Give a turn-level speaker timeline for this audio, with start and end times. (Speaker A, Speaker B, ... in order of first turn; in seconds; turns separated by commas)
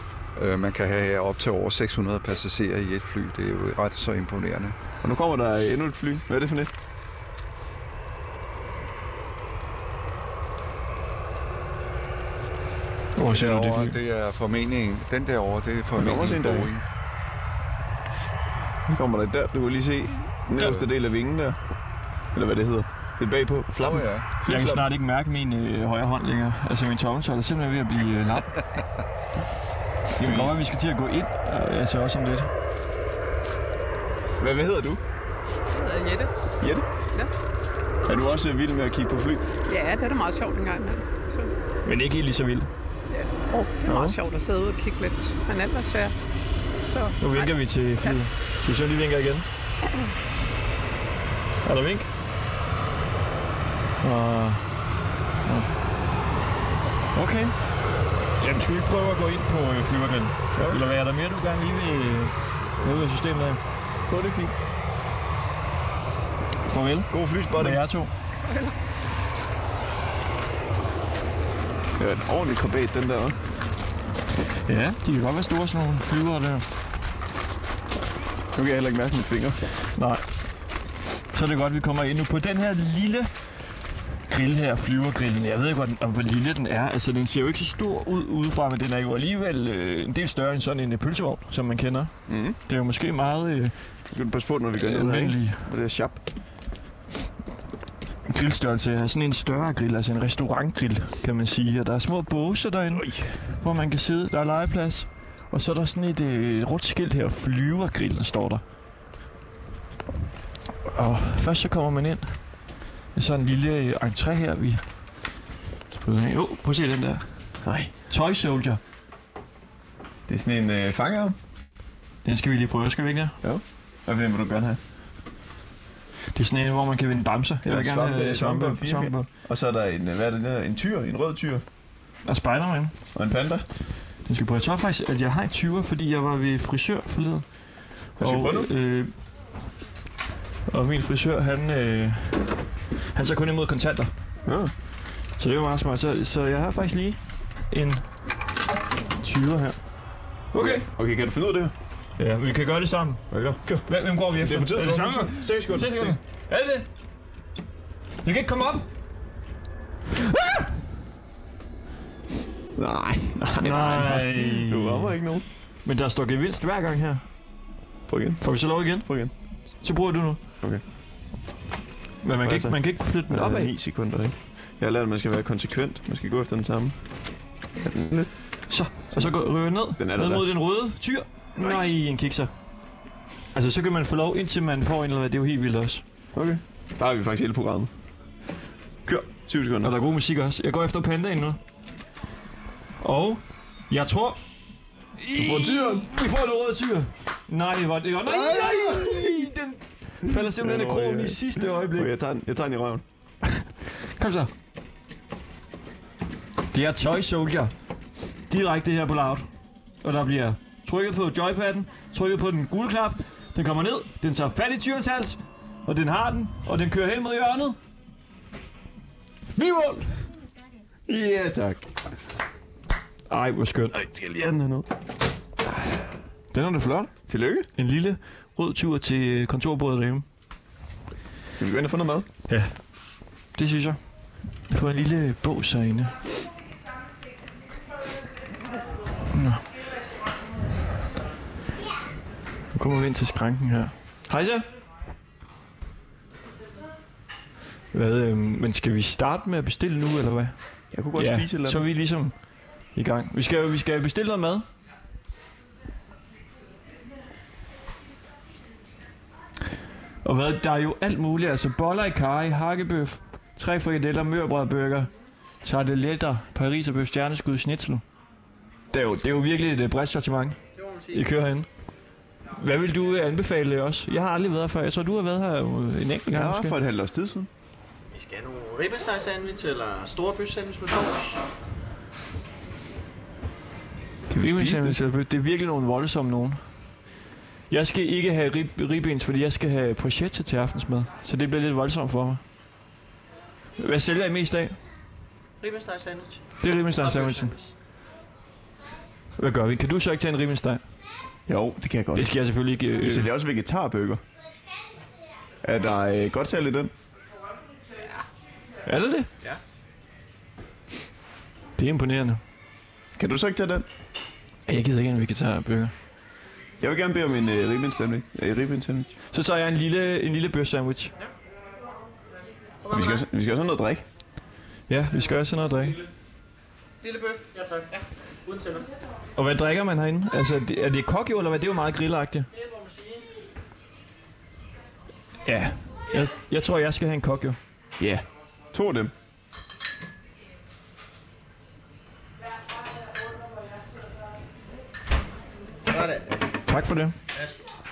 Speaker A: 0.3-4.8, Speaker B: 5.0-6.7, Speaker C: 13.2-14.0, Speaker A: 13.2-16.9, Speaker B: 16.0-16.7, Speaker B: 18.9-21.6, Speaker A: 20.6-20.8, Speaker B: 22.3-24.9, Speaker A: 23.9-24.3, Speaker C: 24.4-28.6, Speaker B: 30.1-30.6, Speaker C: 30.2-32.5, Speaker B: 34.4-35.0, Speaker D: 35.7-36.3, Speaker B: 36.6-36.9, Speaker B: 38.1-39.5, Speaker D: 39.6-41.5, Speaker C: 41.8-42.7, Speaker D: 43.1-46.1, Speaker C: 43.8-44.2, Speaker D: 46.9-48.2, Speaker C: 47.2-49.5, Speaker C: 51.6-52.1, Speaker C: 54.0-54.8, Speaker C: 55.4-55.7, Speaker C: 57.1-57.7, Speaker C: 58.4-63.6, Speaker B: 60.5-60.8, Speaker B: 64.0-64.5, Speaker C: 66.6-68.1, Speaker B: 67.1-67.8, Speaker D: 68.4-68.7, Speaker B: 72.0-73.4, Speaker C: 74.7-76.7, Speaker B: 78.5-79.6, Speaker C: 79.9-80.2, Speaker C: 81.3-83.5, Speaker C: 84.3-94.1, Speaker B: 92.3-92.5, Speaker B: 94.1-96.2, Speaker C: 94.7-95.7, Speaker C: 98.3-108.6, Speaker B: 102.9-103.4, Speaker C: 110.8-114.9, Speaker C: 115.9-117.2, Speaker B: 117.6-117.9, Speaker C: 118.1-118.8, Speaker B: 120.3-121.3, Speaker C: 122.2-123.4, Speaker B: 123.4-124.8, Speaker C: 126.3-129.3, Speaker B: 127.6-131.6, Speaker C: 132.2-132.9, Speaker B: 133.1-133.7, Speaker C: 134.2-139.1, Speaker B: 138.2-138.7, Speaker C: 140.7-142.6, Speaker C: 143.1-144.1, Speaker B: 144.4-144.7, Speaker C: 145.3-148.0, Speaker C: 149.2-149.8, Speaker C: 150.5-150.9, Speaker B: 150.6-151.7, Speaker C: 152.2-156.9, Speaker B: 153.3-156.2, Speaker C: 158.2-158.9, Speaker B: 162.8-165.4, Speaker C: 163.6-165.2, Speaker C: 165.8-167.3, Speaker B: 168.1-169.3, Speaker C: 168.4-170.4, Speaker C: 172.2-173.7, Speaker B: 172.4-180.5, Speaker C: 178.7-182.5, Speaker B: 181.6-181.9, Speaker C: 183.5-186.0, Speaker B: 186.3-187.9, Speaker B: 189.3-189.9, Speaker C: 189.8-191.6, Speaker C: 193.0-194.4, Speaker C: 195.2-202.1, Speaker B: 195.3-196.1, Speaker B: 198.3-199.4, Speaker B: 200.3-203.0, Speaker C: 203.5-204.5, Speaker C: 206.7-207.7, Speaker C: 208.5-209.4, Speaker C: 210.0-217.8, Speaker C: 219.5-220.2, Speaker B: 221.1-221.9, Speaker C: 223.3-224.0, Speaker B: 223.9-224.9, Speaker C: 226.5-230.2, Speaker B: 227.3-227.7, Speaker B: 231.6-232.2, Speaker C: 232.5-236.2, Speaker C: 239.3-239.6, Speaker C: 242.7-244.7, Speaker C: 247.9-250.6, Speaker B: 250.9-251.8, Speaker C: 251.1-254.7, Speaker C: 260.2-265.1, Speaker C: 265.6-268.0, Speaker C: 268.9-270.6, Speaker E: 270.7-271.3, Speaker C: 271.1-271.7, Speaker C: 272.5-276.8, Speaker B: 276.3-277.5, Speaker E: 278.1-281.4, Speaker B: 284.3-285.0, Speaker C: 284.3-286.6, Speaker C: 287.7-292.4, Speaker C: 293.8-294.8, Speaker E: 295.6-297.7, Speaker C: 296.6-297.6, Speaker C: 299.4-300.8, Speaker B: 301.5-304.2, Speaker C: 302.1-303.3, Speaker B: 305.6-306.9, Speaker C: 308.9-309.3, Speaker C: 311.8-312.4, Speaker B: 313.1-313.9, Speaker C: 314.7-315.9, Speaker B: 316.8-319.1, Speaker C: 319.3-321.1, Speaker E: 322.8-323.2, Speaker B: 322.9-324.0, Speaker C: 324.9-326.0, Speaker E: 327.0-328.9, Speaker C: 329.4-332.5, Speaker E: 332.5-333.4, Speaker C: 335.4-337.6, Speaker B: 338.0-339.1, Speaker E: 345.9-346.5, Speaker C: 346.7-347.1, Speaker E: 347.3-347.6